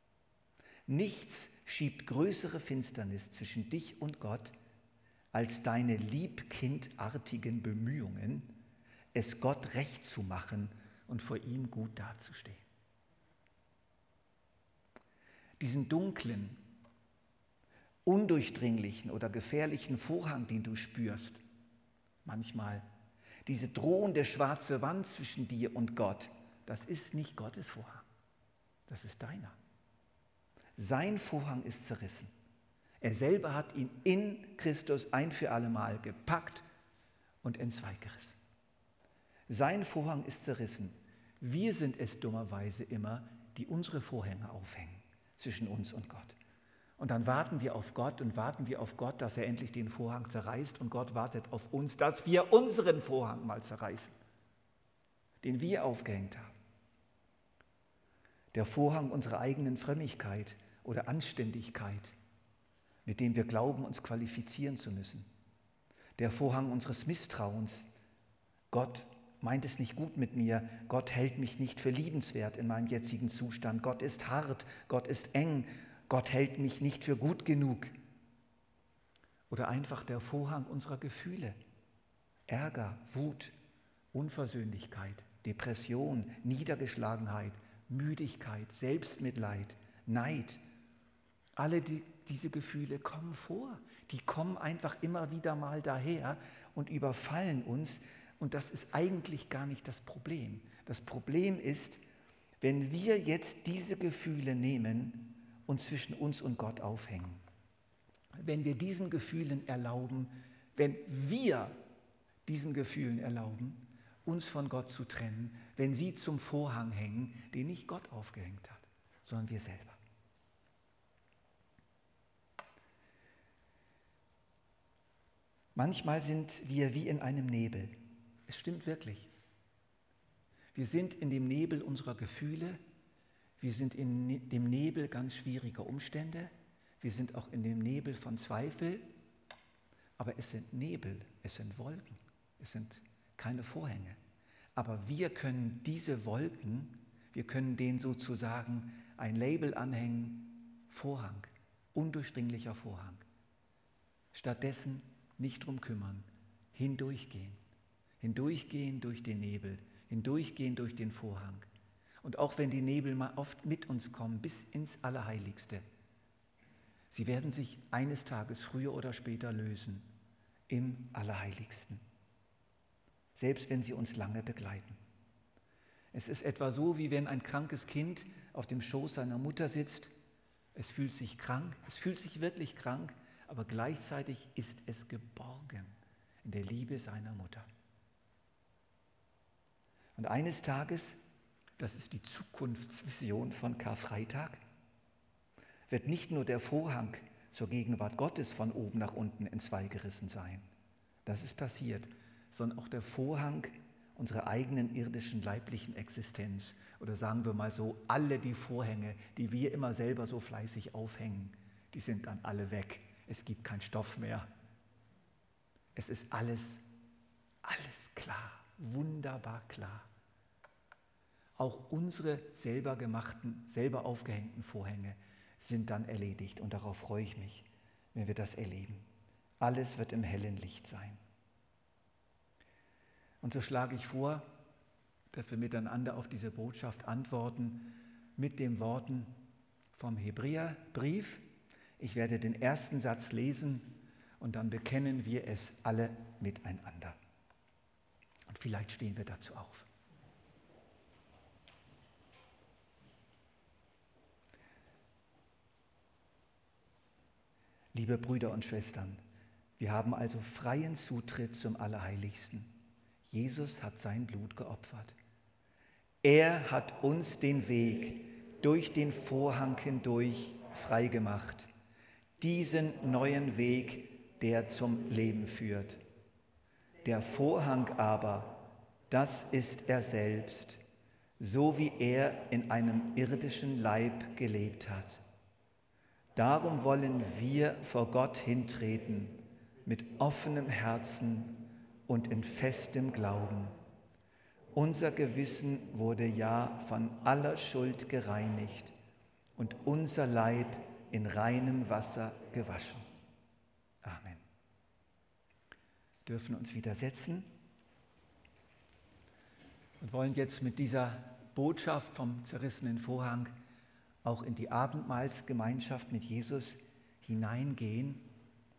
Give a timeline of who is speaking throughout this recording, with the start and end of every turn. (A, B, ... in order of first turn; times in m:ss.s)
0:00.9-0:04.5 A
0:05.3-0:08.6 A
0:09.1-0:12.7 A
0:15.6-0:16.6 A
0:18.0-0:21.4 A
0:22.2-0:22.9 A
0:23.5-0:28.1 A
0:28.9-0:29.6 A
0:30.8-0:32.3 A
0:33.0-0:36.6 A
0:37.4-0:38.4 A
0:39.5-0:46.4 A
0:47.0-0:54.1 A
0:55.4-0:56.6 A
0:58.5-1:02.2 A
1:03.1-1:05.3 A
1:06.2-1:07.9 A
1:08.7-1:17.9 A
1:19.5-1:21.6 A
1:22.5-1:23.5 A
1:24.1-1:30.6 A
1:31.6-1:42.0 A
1:42.6-1:47.4 A
1:48.4-1:51.8 A
1:52.5-2:00.0 A
2:05.8-2:08.0 A
2:08.5-2:09.3 A
2:10.7-2:12.8 A
2:13.6-2:19.1 A
2:20.2-2:24.2 A
2:24.8-2:33.2 A
2:34.3-2:37.6 A
2:38.2-2:41.7 A
2:42.2-2:45.8 A
2:47.1-2:50.1 A
2:50.7-2:52.0 A
2:53.4-2:55.0 A
2:56.1-3:00.1 A
3:00.8-3:07.7 A
3:10.2-3:11.2 A
3:11.8-3:14.6 A
3:15.9-3:20.7 A
3:21.3-3:34.5 A
3:36.0-3:36.8 A
3:37.6-3:40.1 A
3:41.6-3:49.0 A
3:49.6-3:51.2 A
3:53.4-3:54.5 A
3:55.3-3:59.4 A
3:59.9-4:01.4 A
4:02.0-4:07.2 A
4:08.5-4:09.9 A
4:17.9-4:19.2 A
4:19.8-4:25.2 A
4:26.2-4:31.7 A
4:32.4-4:36.0 A
4:37.0-4:40.8 A
4:41.4-4:45.2 A
4:46.4-4:53.8 A
4:54.7-4:58.9 A
4:59.6-5:03.0 A
5:04.0-5:04.4 A
5:06.3-5:07.5 A
5:10.0-5:13.5 A
5:14.2-5:18.3 A